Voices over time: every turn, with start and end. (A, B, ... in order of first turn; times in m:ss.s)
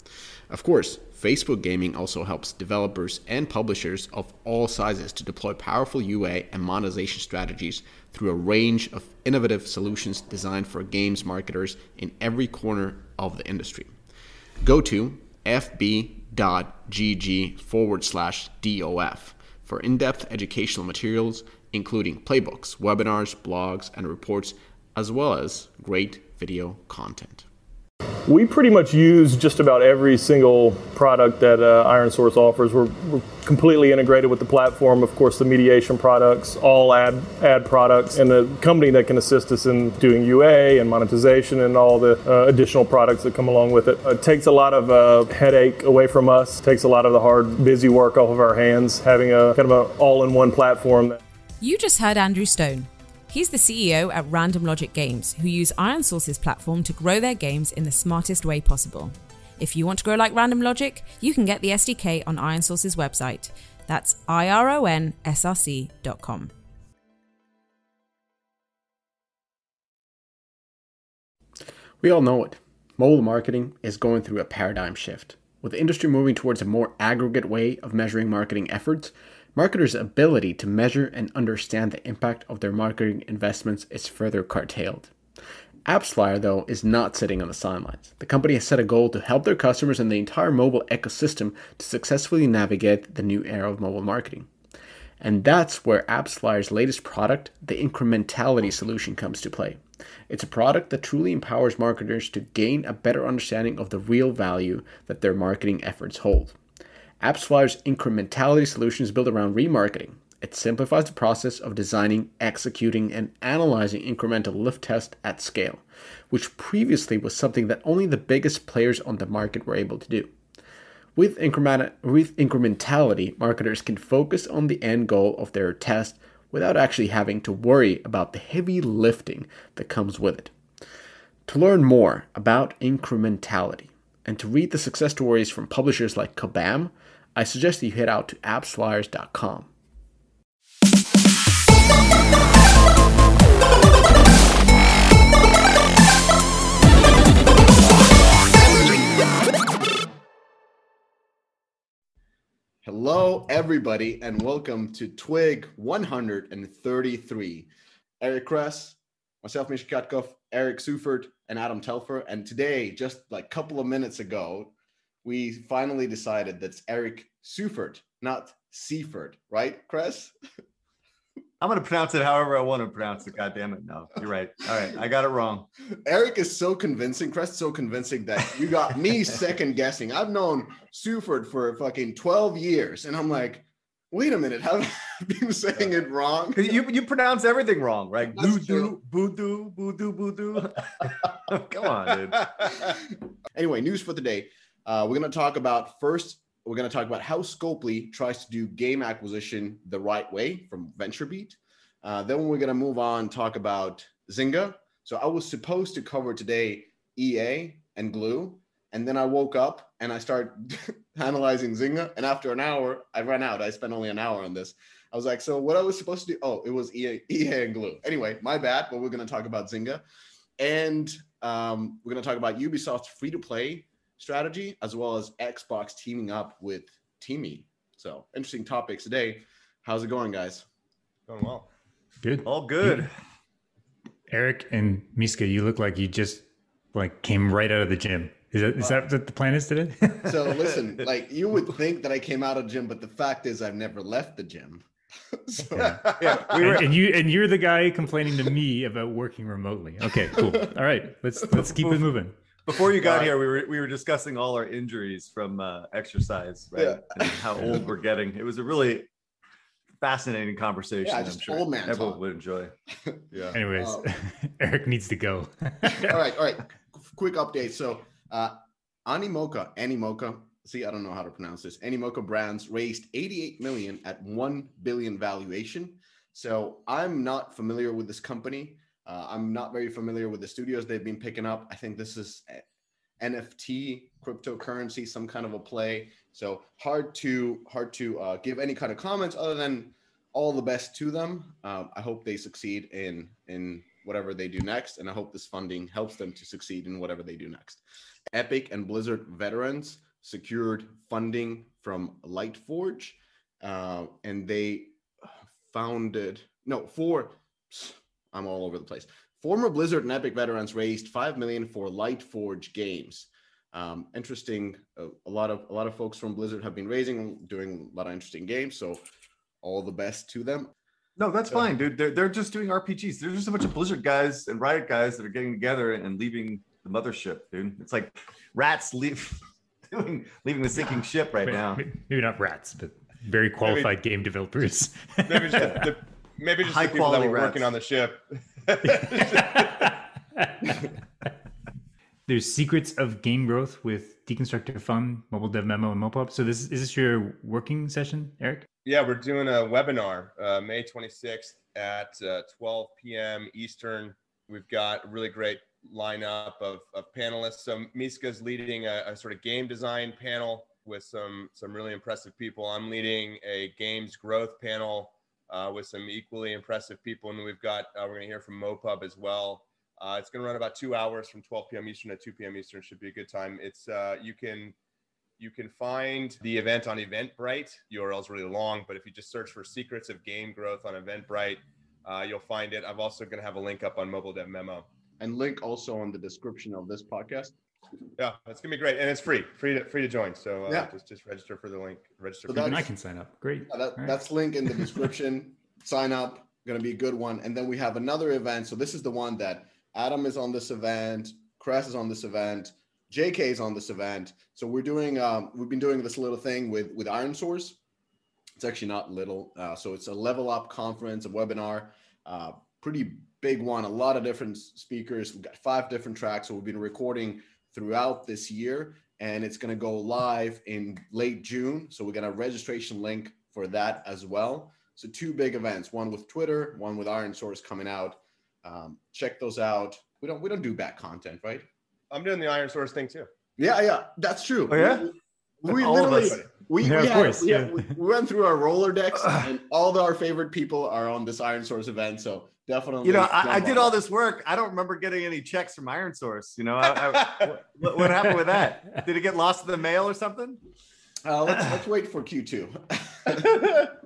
0:00.5-0:13.9 A
0:14.6-0:27.5 A
0:28.3-0:51.2 B
0:51.6-1:06.5 C
1:12.0-1:25.1 A
1:25.9-1:34.5 A
1:35.2-1:39.8 A
1:40.3-1:46.6 A
1:47.2-1:55.8 A
1:56.3-2:00.3 A
2:01.2-2:10.5 A
2:11.5-2:19.7 A
2:32.8-2:37.7 A
2:38.2-2:44.7 A
2:45.2-2:50.3 A
2:51.6-2:55.7 D
2:56.0-3:06.8 A
3:06.6-3:12.7 D
3:08.3-3:09.0 A
3:12.7-3:13.0 A
3:13.6-3:40.0 A
3:40.6-3:50.7 A
3:51.3-3:51.7 E
3:52.2-3:53.1 F
3:52.4-3:53.1 D
3:54.3-4:00.6 F
4:00.2-4:06.5 A
4:05.7-4:12.4 F
4:06.2-4:07.0 D
4:11.5-4:12.1 D
4:12.6-4:19.1 D
4:16.8-4:17.8 A
4:20.0-4:22.7 D
4:21.0-4:22.2 A
4:23.0-4:24.0 A
4:23.5-4:26.2 F
4:25.8-4:42.6 A
4:43.2-5:05.0 A
5:05.7-5:19.0 A
5:19.6-5:20.7 A
5:21.2-5:31.8 D
5:31.5-5:35.9 F
5:33.6-5:33.9 E
5:35.3-5:39.8 E
5:35.6-5:35.9 D
5:36.6-5:37.7 D
5:39.2-5:39.7 F
5:42.3-5:48.7 F
5:48.8-6:14.8 E
6:15.4-6:24.8 E
6:25.2-6:27.6 A
6:28.2-6:32.8 E
6:32.5-6:32.8 A
6:32.5-6:34.2 F
6:33.7-6:47.8 A
6:48.6-7:11.6 A
7:12.1-7:13.3 E
7:13.6-7:24.0 A
7:14.7-7:15.1 D
7:15.6-7:16.4 D
7:16.8-7:17.9 F
7:23.0-7:30.6 D
7:31.2-7:33.9 A